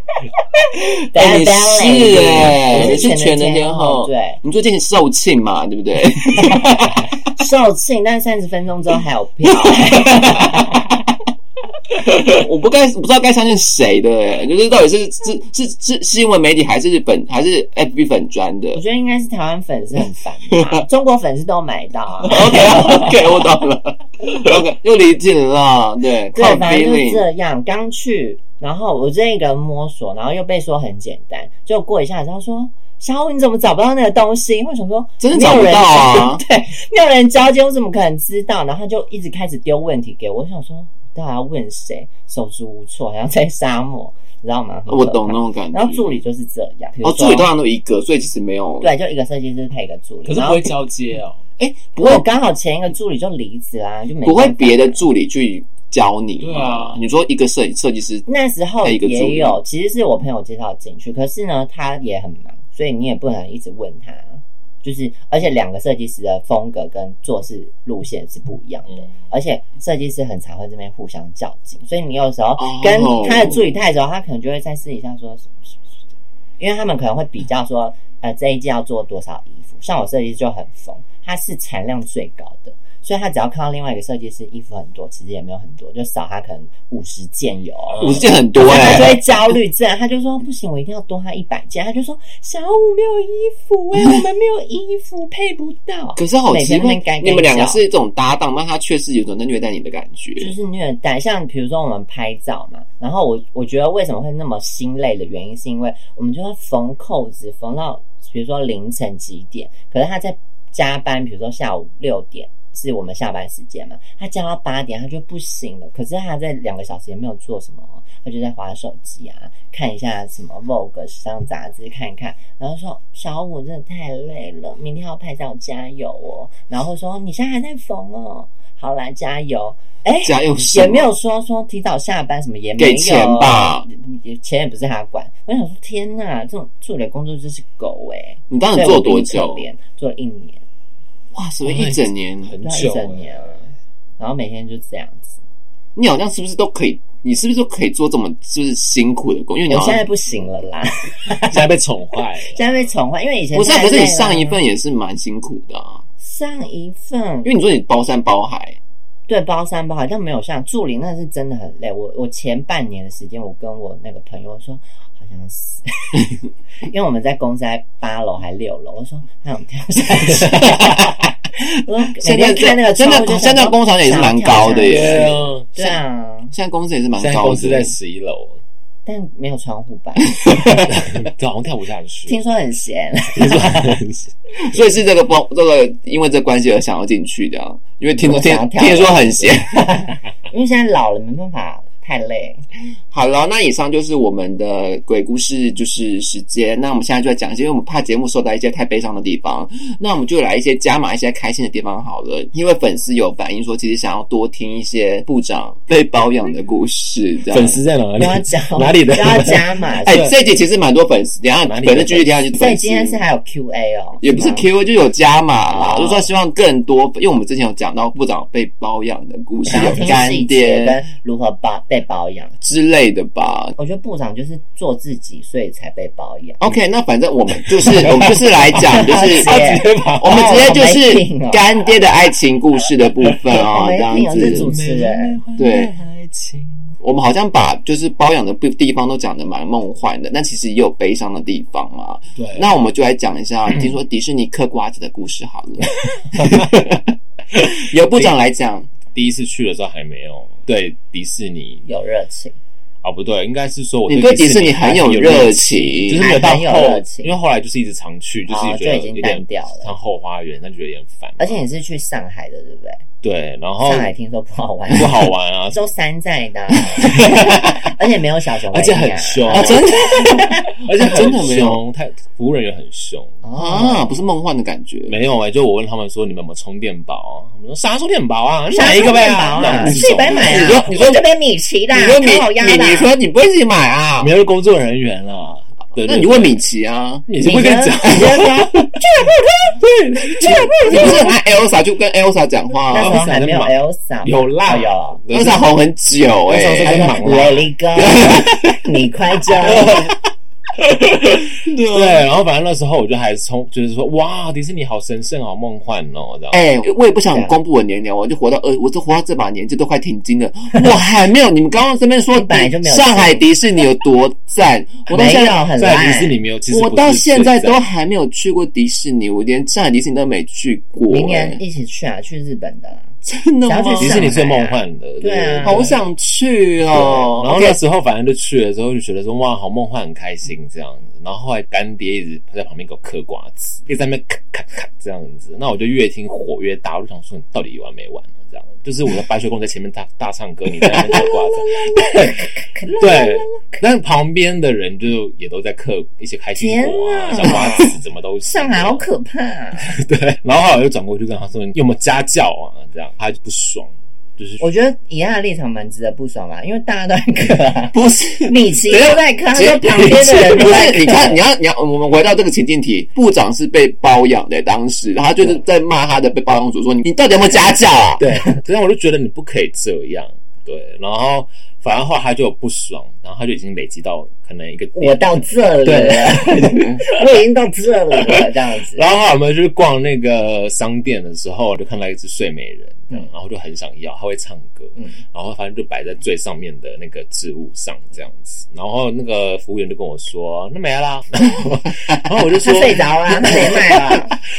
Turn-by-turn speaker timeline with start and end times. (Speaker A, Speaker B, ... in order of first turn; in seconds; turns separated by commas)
Speaker A: 1.1-4.4, Speaker B: 1.1-7.1, Speaker A: 7.4-10.7, Speaker B: 9.6-10.8, Speaker B: 11.9-18.8, Speaker A: 18.7-23.4, Speaker B: 22.2-27.2, Speaker A: 26.3-47.5, Speaker B: 35.2-36.4, Speaker B: 44.9-46.2, Speaker B: 47.0-48.9, Speaker A: 48.8-50.7, Speaker C: 50.2-51.4, Speaker B: 51.6-52.2, Speaker A: 52.0-55.0, Speaker B: 54.2-58.3, Speaker C: 56.4-57.0, Speaker A: 58.3-75.7, Speaker B: 58.8-59.6, Speaker B: 72.6-73.7, Speaker A: 76.6-97.8, Speaker C: 87.9-88.2, Speaker B: 88.0-89.5, Speaker B: 96.2-100.5, Speaker A: 100.4-140.6, Speaker B: 130.2-131.1, Speaker B: 132.8-133.8, Speaker B: 138.5-139.6, Speaker B: 141.3-142.5, Speaker C: 141.7-143.3, Speaker A: 142.6-143.7, Speaker A: 144.2-145.3, Speaker B: 145.9-150.0, Speaker A: 149.7-151.6, Speaker C: 151.5-152.6, Speaker A: 152.4-154.6, Speaker B: 153.5-156.0, Speaker A: 156.2-157.5, Speaker B: 157.4-158.8, Speaker A: 159.3-166.2, Speaker A: 166.8-171.0, Speaker C: 170.4-170.7, Speaker B: 170.7-171.2, Speaker A: 171.8-176.5, Speaker B: 172.2-176.0, Speaker C: 174.8-175.7, Speaker B: 176.5-177.9, Speaker C: 177.2-178.6, Speaker A: 179.1-180.3, Speaker B: 180.4-180.9, Speaker C: 180.9-182.4, Speaker A: 182.3-184.0, Speaker C: 183.3-184.3, Speaker B: 184.6-189.7, Speaker A: 188.2-192.6, Speaker B: 193.1-207.8, Speaker C: 207.5-210.3, Speaker A: 208.2-210.2, Speaker B: 210.1-213.2, Speaker C: 211.6-212.3, Speaker A: 212.5-214.7, Speaker B: 214.2-221.0, Speaker A: 215.7-216.3, Speaker A: 219.7-222.5, Speaker C: 219.8-220.1, Speaker B: 222.6-223.8, Speaker A: 223.8-226.8, Speaker B: 226.6-229.5, Speaker C: 227.7-230.6, Speaker A: 228.9-231.9, Speaker B: 230.2-234.7, Speaker A: 233.6-235.4, Speaker C: 234.4-236.9, Speaker B: 235.6-235.9, Speaker B: 237.0-248.9, Speaker C: 242.3-242.7, Speaker C: 246.4-246.7, Speaker C: 249.1-251.8, Speaker A: 251.8-252.6, Speaker C: 253.0-261.6, Speaker B: 254.1-256.2, Speaker A: 256.1-257.4, Speaker A: 258.5-259.9, Speaker A: 261.4-263.0, Speaker C: 263.2-264.1, Speaker A: 263.8-265.1, Speaker C: 264.9-265.8, Speaker A: 265.7-270.6, Speaker C: 267.0-267.9, Speaker C: 268.7-273.4, Speaker B: 269.5-271.8, Speaker A: 273.4-274.2, Speaker B: 273.6-275.2, Speaker C: 275.1-281.2, Speaker A: 278.7-283.1, Speaker B: 279.8-281.2, Speaker B: 281.9-284.3, Speaker C: 284.2-286.6, Speaker B: 286.0-287.2, Speaker C: 287.3-289.3, Speaker A: 287.4-289.3, Speaker B: 288.0-288.5, Speaker C: 289.8-291.4, Speaker A: 290.7-291.1, Speaker B: 290.8-293.2, Speaker C: 292.9-295.7, Speaker A: 292.9-295.2, Speaker B: 295.3-297.1, Speaker C: 296.5-297.7, Speaker A: 296.8-300.1, Speaker B: 297.9-298.7, Speaker C: 299.6-300.1, Speaker C: 300.8-306.6, Speaker B: 301.5-302.2, Speaker B: 306.5-315.6, Speaker A: 307.3-307.5, Speaker A: 312.3-313.5, Speaker A: 315.1-316.3, Speaker C: 315.8-317.8, Speaker B: 316.7-321.6, Speaker A: 321.1-323.1, Speaker B: 323.2-324.2, Speaker A: 323.6-325.9, Speaker C: 324.0-326.0, Speaker B: 325.6-327.8, Speaker C: 326.9-342.5, Speaker A: 341.1-343.8, Speaker C: 343.0-349.1, Speaker A: 346.6-347.9, Speaker A: 348.5-349.9, Speaker C: 349.9-354.6, Speaker A: 354.6-361.4, Speaker B: 357.9-368.2, Speaker C: 360.0-360.9, Speaker C: 368.2-377.2, Speaker A: 374.9-379.1, Speaker C: 378.1-394.4, Speaker A: 392.6-394.3